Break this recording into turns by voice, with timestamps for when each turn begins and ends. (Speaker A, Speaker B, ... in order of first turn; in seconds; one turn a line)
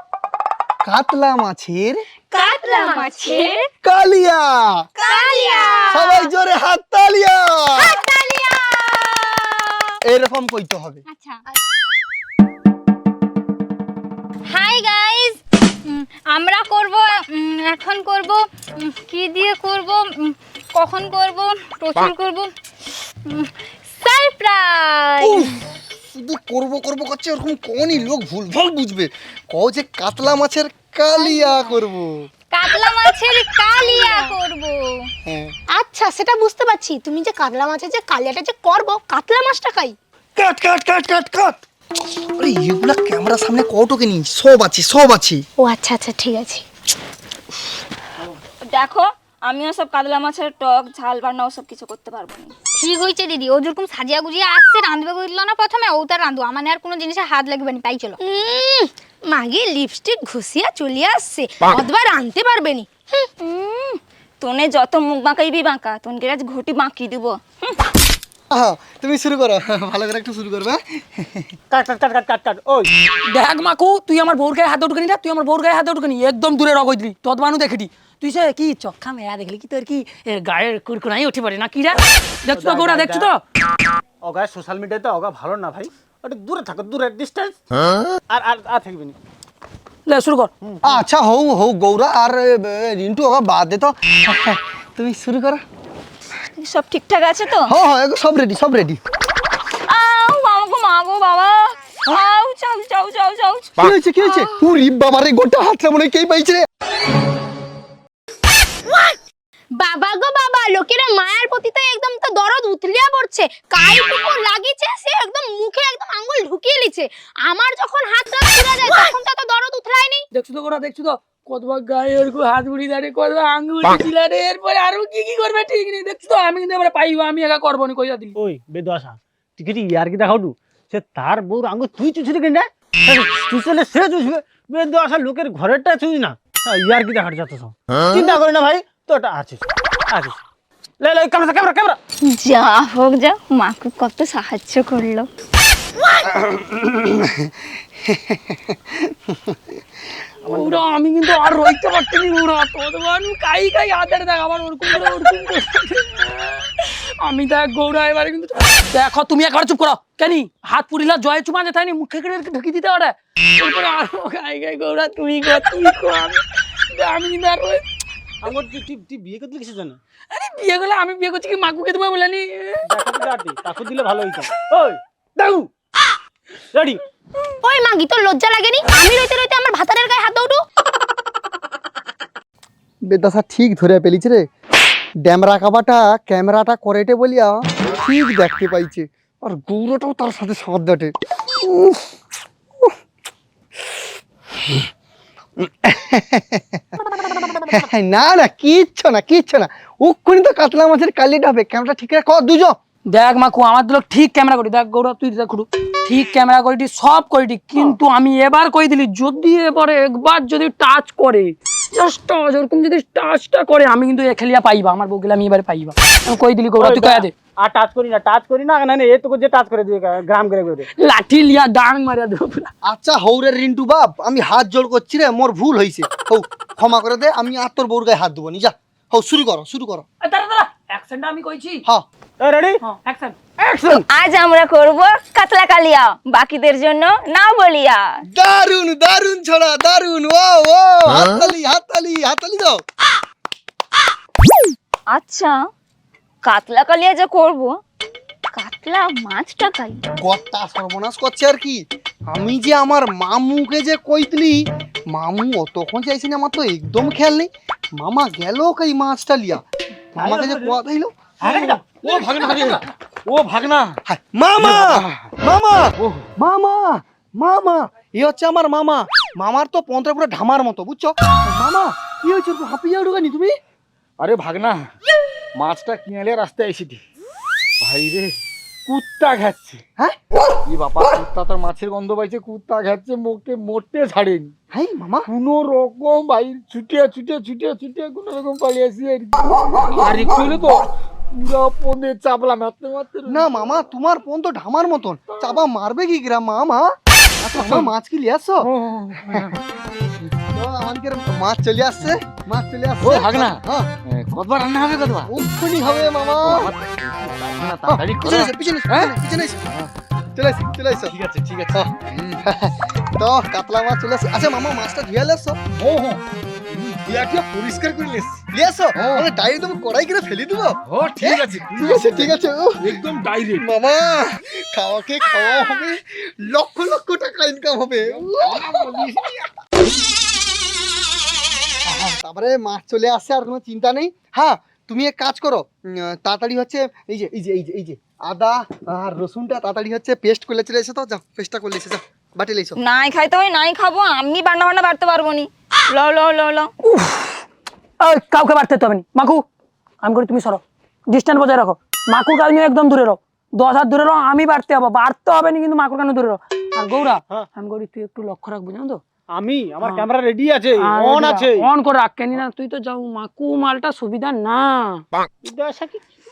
Speaker A: 0.8-2.0
Speaker B: 2.3-3.7
Speaker C: 2.3-3.5
Speaker A: 3.8-4.9
Speaker B: 5.0-6.3
Speaker C: 5.0-6.0
Speaker A: 5.9-8.0
Speaker B: 7.8-9.9
Speaker A: 10.1-11.0
Speaker B: 11.1-11.4
Speaker B: 14.5-22.5
Speaker B: 23.3-25.5
Speaker A: 25.2-32.3
Speaker B: 31.2-31.8
Speaker B: 32.5-35.1
Speaker C: 33.8-34.2
Speaker A: 35.2-35.5
Speaker C: 35.7-40.0
Speaker A: 40.4-41.6
Speaker A: 42.4-45.4
Speaker C: 45.6-46.6
Speaker D: 48.6-52.5
Speaker B: 52.8-58.2
Speaker C: 58.2-63.3
Speaker D: 63.4-67.8
Speaker A: 68.5-71.5
Speaker E: 71.7-72.9
Speaker F: 73.3-83.4
Speaker E: 82.5-83.3
Speaker E: 84.2-87.6
Speaker E: 88.3-89.2
Speaker F: 90.1-90.5
Speaker E: 90.6-91.0
Speaker A: 90.8-95.6
Speaker D: 96.6-97.8
Speaker A: 97.7-99.0
Speaker D: 99.9-103.8
Speaker A: 103.8-106.6
Speaker C: 108.9-109.2
Speaker C: 109.8-120.2
Speaker F: 120.3-128.4
Speaker E: 128.4-140.4
Speaker E: 141.0-142.0
Speaker D: 142.2-145.3
Speaker A: 146.2-149.6
Speaker F: 150.4-167.8
Speaker E: 150.5-150.8
Speaker E: 168.4-170.0
Speaker F: 170.3-172.8
Speaker E: 172.9-175.7
Speaker E: 176.7-177.0
Speaker C: 177.6-180.6
Speaker A: 183.1-184.5
Speaker A: 185.2-192.2
Speaker A: 195.6-197.1
Speaker A: 197.6-202.8
Speaker F: 203.1-217.3
Speaker E: 216.8-220.9
Speaker F: 220.9-222.7
Speaker A: 222.8-230.1
Speaker F: 230.2-231.8
Speaker E: 232.4-232.8
Speaker F: 232.8-233.5
Speaker E: 233.7-234.0
Speaker D: 234.1-238.1
Speaker A: 238.3-242.8
Speaker D: 245.1-245.5
Speaker D: 246.4-247.7
Speaker D: 248.6-250.0
Speaker A: 250.2-259.6
Speaker A: 260.1-261.2
Speaker E: 260.2-260.8
Speaker E: 261.4-262.7
Speaker G: 261.4-264.0
Speaker A: 264.1-273.6
Speaker G: 264.6-265.3
Speaker G: 266.0-266.3
Speaker G: 274.2-274.9
Speaker G: 275.6-277.0
Speaker G: 277.8-278.4
Speaker G: 278.9-279.9
Speaker G: 280.7-284.5
Speaker A: 284.7-285.3
Speaker G: 285.3-293.5
Speaker A: 293.3-298.7
Speaker G: 297.6-297.9
Speaker G: 298.6-299.6
Speaker A: 300.5-303.9
Speaker G: 303.0-305.3
Speaker A: 305.2-306.7
Speaker G: 306.4-309.1
Speaker A: 307.9-309.7
Speaker A: 310.4-311.1
Speaker G: 311.1-312.4
Speaker A: 311.7-315.6
Speaker G: 315.8-318.4
Speaker A: 318.5-323.0
Speaker G: 319.0-319.3
Speaker G: 320.9-323.7
Speaker A: 323.6-329.1
Speaker G: 328.1-329.5
Speaker A: 331.9-342.8
Speaker D: 342.8-346.7
Speaker F: 346.8-347.4
Speaker F: 348.0-349.4
Speaker F: 350.0-359.0
Speaker E: 359.3-361.7
Speaker F: 360.8-365.1
Speaker E: 365.4-366.0